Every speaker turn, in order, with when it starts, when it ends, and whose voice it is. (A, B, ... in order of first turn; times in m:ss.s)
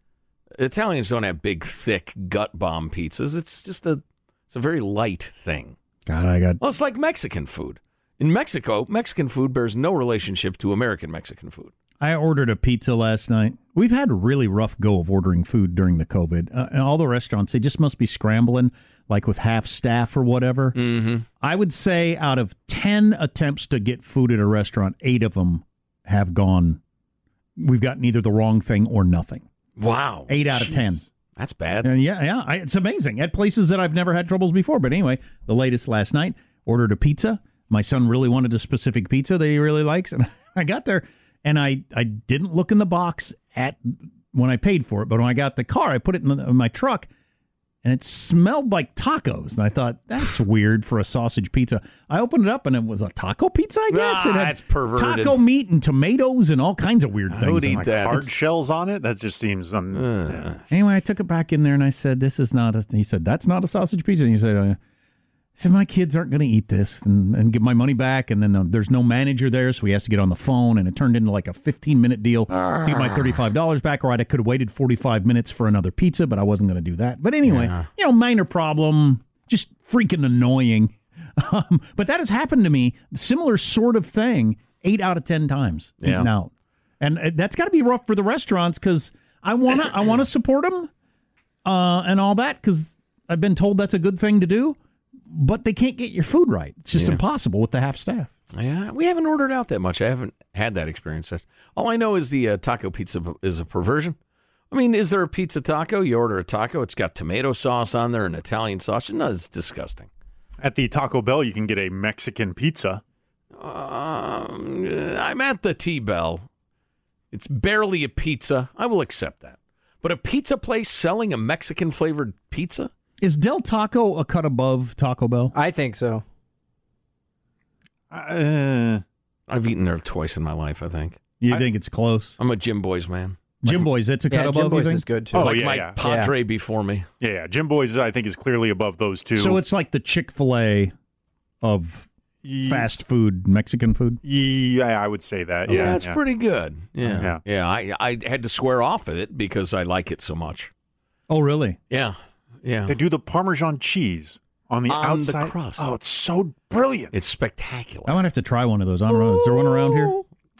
0:00.6-0:05.8 A
0:06.1-0:06.6 B
0:06.6-0:11.7 A
0:12.0-0:20.8 B
0:20.8-0:21.2 A
0:21.4-0:26.8 B
0:27.6-0:29.5 B
0:29.8-0:30.8 A
0:30.3-0:31.1 B
0:31.4-0:31.9 A
0:31.8-0:47.1 B
0:47.8-0:58.3 B
0:53.9-0:55.4 A
0:57.3-0:58.5 A
0:57.8-1:00.6 C
0:59.9-1:00.6 A
1:00.7-1:04.8 B
1:05.6-1:30.9 B
1:12.8-1:13.3 A
1:17.5-1:17.7 A
1:26.0-1:26.3 A
1:31.6-1:34.8 B
1:35.3-1:38.3 B
1:36.9-1:37.2 A
1:38.5-1:44.2 A
1:44.7-1:50.1 A
1:50.6-1:53.0 C
1:53.6-1:56.5 A
1:57.3-2:02.9 A
2:03.2-2:05.5 B
2:05.6-2:06.2 D
2:08.1-2:09.0 C
2:09.5-2:11.2 A
2:11.4-2:12.4 B
2:12.4-2:13.8 A
2:13.6-2:15.1 B
2:14.3-2:15.4 D
2:15.3-2:17.1 A
2:15.3-2:16.0 C
2:16.0-2:16.3 D
2:17.2-2:19.6 C
2:19.4-2:20.9 B
2:21.6-2:22.1 B
2:22.4-2:22.9 C
2:22.6-2:24.2 B
2:24.2-2:26.2 C
2:25.7-2:30.7 A
2:27.0-2:27.4 C
2:31.3-2:31.8 B
2:31.9-2:33.0 A
2:32.9-2:37.2 C
2:34.9-2:35.9 A
2:37.1-2:38.2 A
2:38.1-2:40.2 B